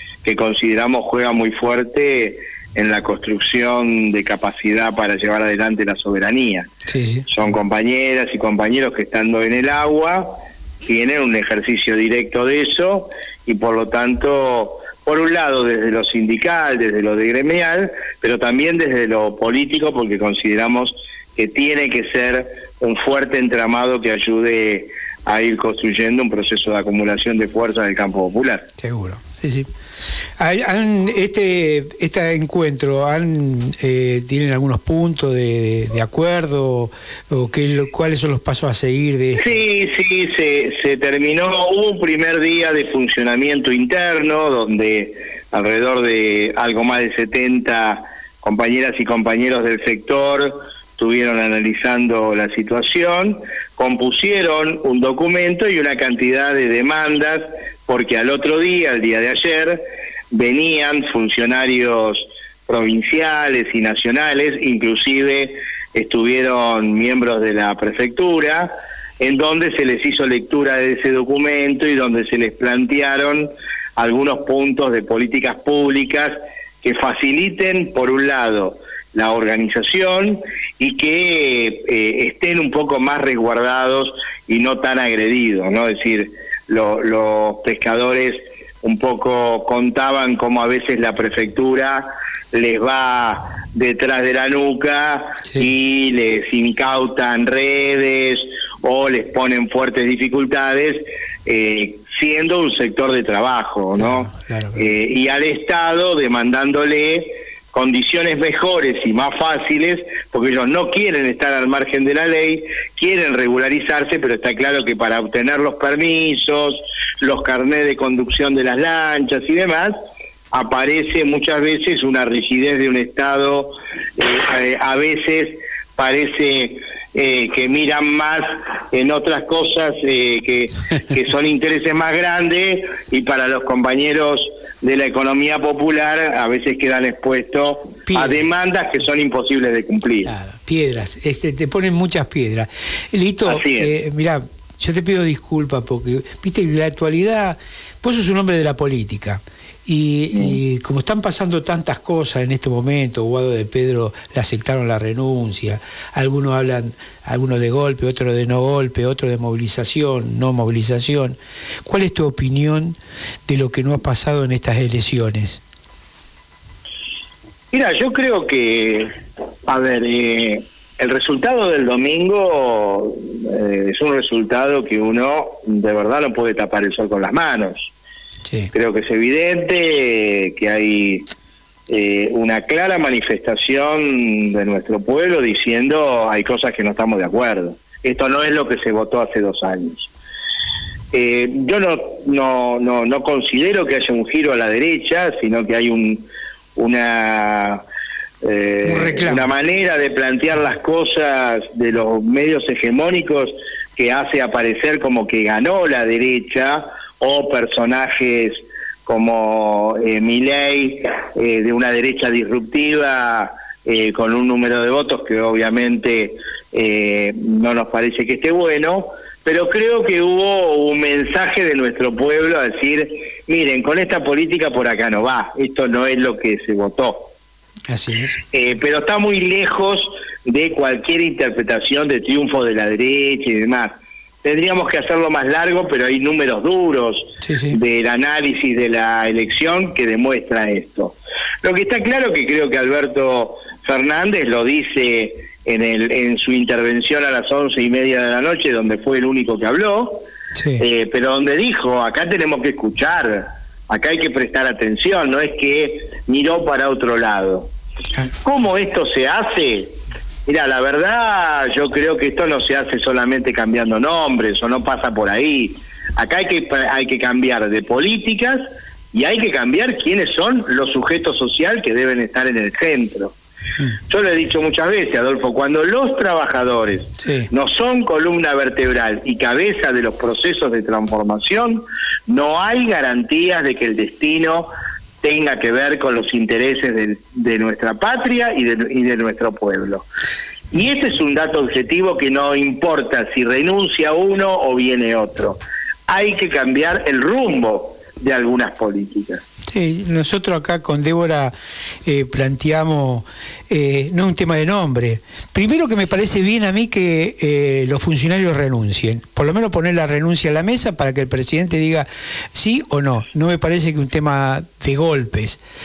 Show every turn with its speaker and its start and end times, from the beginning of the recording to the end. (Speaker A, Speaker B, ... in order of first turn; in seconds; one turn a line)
Speaker A: 0.2-6.7
Speaker B: 6.9-7.2
Speaker A: 7.3-28.7
Speaker B: 28.8-29.7
Speaker B: 30.4-39.6
Speaker A: 39.4-119.9
Speaker B: 104.0-104.8
Speaker A: 120.5-140.3
Speaker B: 138.1-138.4
Speaker B: 140.2-165.6
Speaker A: 143.4-143.9
Speaker A: 167.7-169.1
Speaker A: 169.7-177.9
Speaker A: 178.7-181.2
Speaker A: 181.9-190.1
Speaker A: 191.1-197.8
Speaker A: 198.4-227.3
Speaker B: 198.8-199.5
Speaker B: 227.9-228.4
Speaker A: 228.5-257.7
Speaker B: 237.4-237.8
Speaker B: 250.5-250.8
Speaker A: 258.4-268.6
Speaker A: 269.1-273.3
Speaker A: 274.1-284.7
Speaker B: 277.2-277.5
Speaker A: 285.2-290.1
Speaker A: 290.7-299.4
Speaker B: 299.7-301.5
Speaker B: 302.0-315.6